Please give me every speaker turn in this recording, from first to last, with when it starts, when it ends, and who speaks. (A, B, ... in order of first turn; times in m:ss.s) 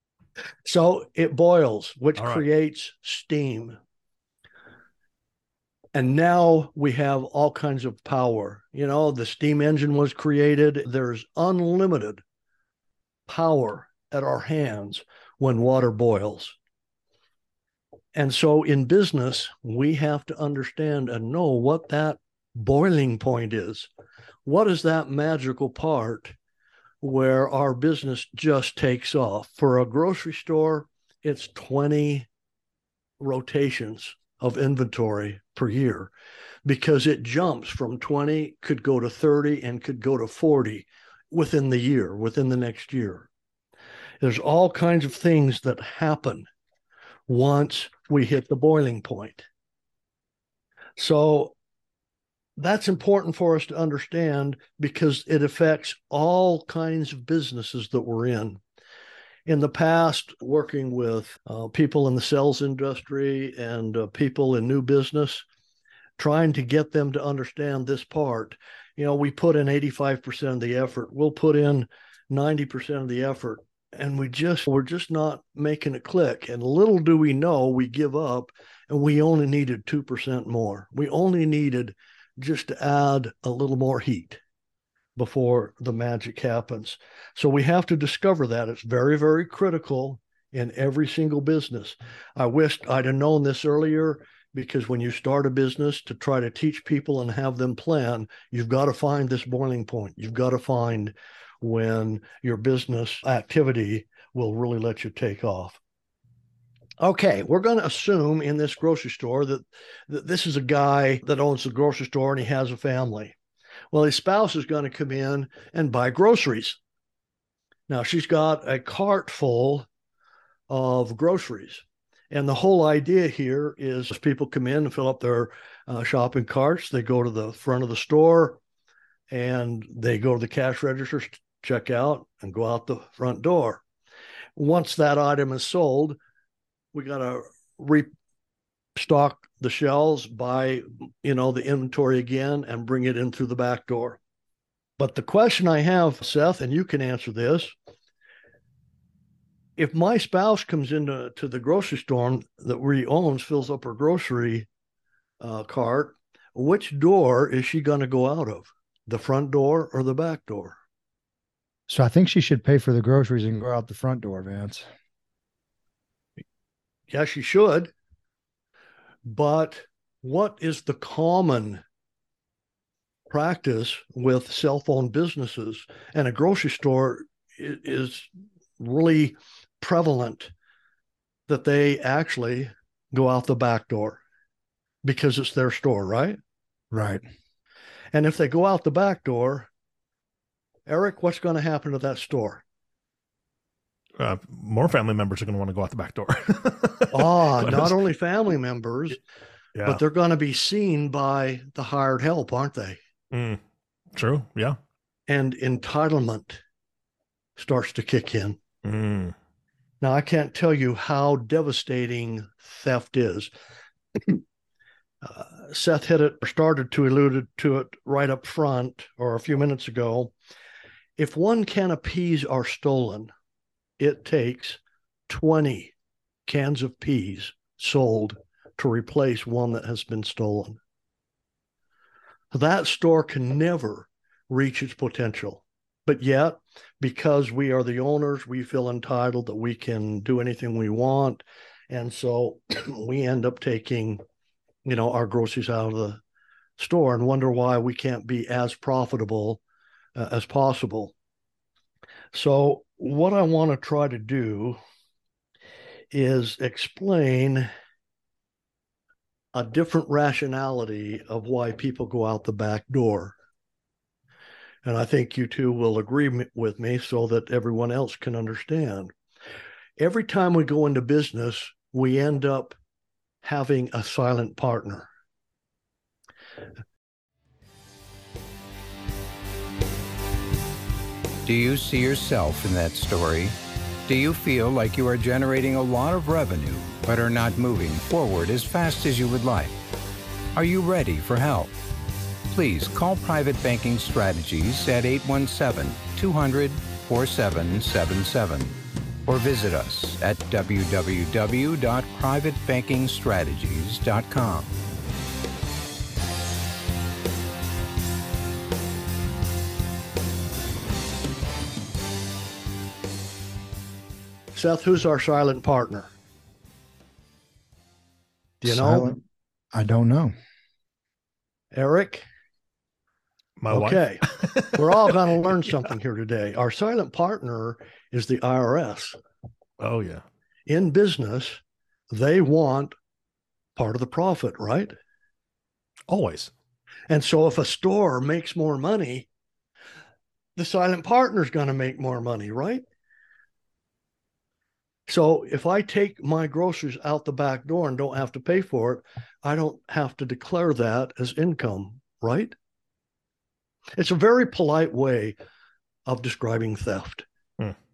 0:00.6-0:03.8 A
0:02.2-0:02.4 B
0:05.9-0:12.2 A
0:13.3-0:16.6 A
0:18.1-0:23.9 A
0:24.4-0:26.4 A
0:27.0-0:32.3 A
0:33.2-0:36.1 A
0:36.6-0:43.3 A
0:44.2-0:46.5 A
0:47.3-0:49.5 A
0:51.0-0:51.6 A
0:52.6-0:58.6 A
0:59.5-1:05.4 A
1:06.2-1:24.4 A
1:25.2-1:45.8 A
1:47.0-1:53.4 A
1:53.9-1:56.8 A
1:57.9-1:59.9 A
2:00.7-2:08.6 A
2:09.3-2:13.8 A
2:14.6-2:16.2 A
2:16.9-2:18.1 A
2:19.0-2:24.2 A
2:25.0-2:27.7 A
2:29.8-2:34.7 A
2:35.4-2:40.8 A
2:41.9-2:44.9 C
2:47.1-2:47.9 A
2:49.3-2:51.8 A
2:53.3-3:00.5 A
3:01.5-3:04.2 A
3:05.0-3:06.4 A
3:06.9-3:07.2 C
3:08.1-3:09.7 A
3:10.9-3:12.6 A
3:14.2-3:17.9 B
3:17.1-3:19.2 A
3:19.8-3:23.0 A
3:23.3-3:23.6 B
3:24.1-3:24.8 B
3:25.3-3:26.6 A
3:27.6-3:28.6 A
3:28.8-3:29.4 B
3:30.0-3:33.5 A
3:35.2-3:40.3 A
3:41.2-3:43.3 A
3:44.0-3:45.9 A
3:46.5-3:50.8 A
3:52.5-4:04.2 A
4:04.8-4:06.2 A
4:06.8-4:09.6 A
4:10.2-4:11.1 A
4:12.3-4:14.8 A
4:16.1-4:17.7 A
4:19.5-4:23.4 A
4:24.8-4:29.1 A
4:30.0-4:32.8 A
4:33.4-4:35.1 A
4:41.4-4:49.8 D
4:50.5-4:51.7 D
4:52.5-5:04.7 D
5:14.6-5:16.1 A
5:18.6-5:19.2 A
5:18.6-5:19.2 C
5:19.7-5:20.3 C
5:21.7-5:22.2 A
5:23.6-5:24.8 B
5:23.7-5:29.2 A
5:29.8-5:30.2 B
5:30.7-5:31.6 A
5:32.1-5:32.9 A
5:33.8-5:35.0 A
5:36.1-5:36.5 B
5:37.1-5:39.3 A
5:40.6-5:42.8 A
5:45.1-5:52.5 A
5:54.0-5:55.4 A
5:56.1-5:57.2 A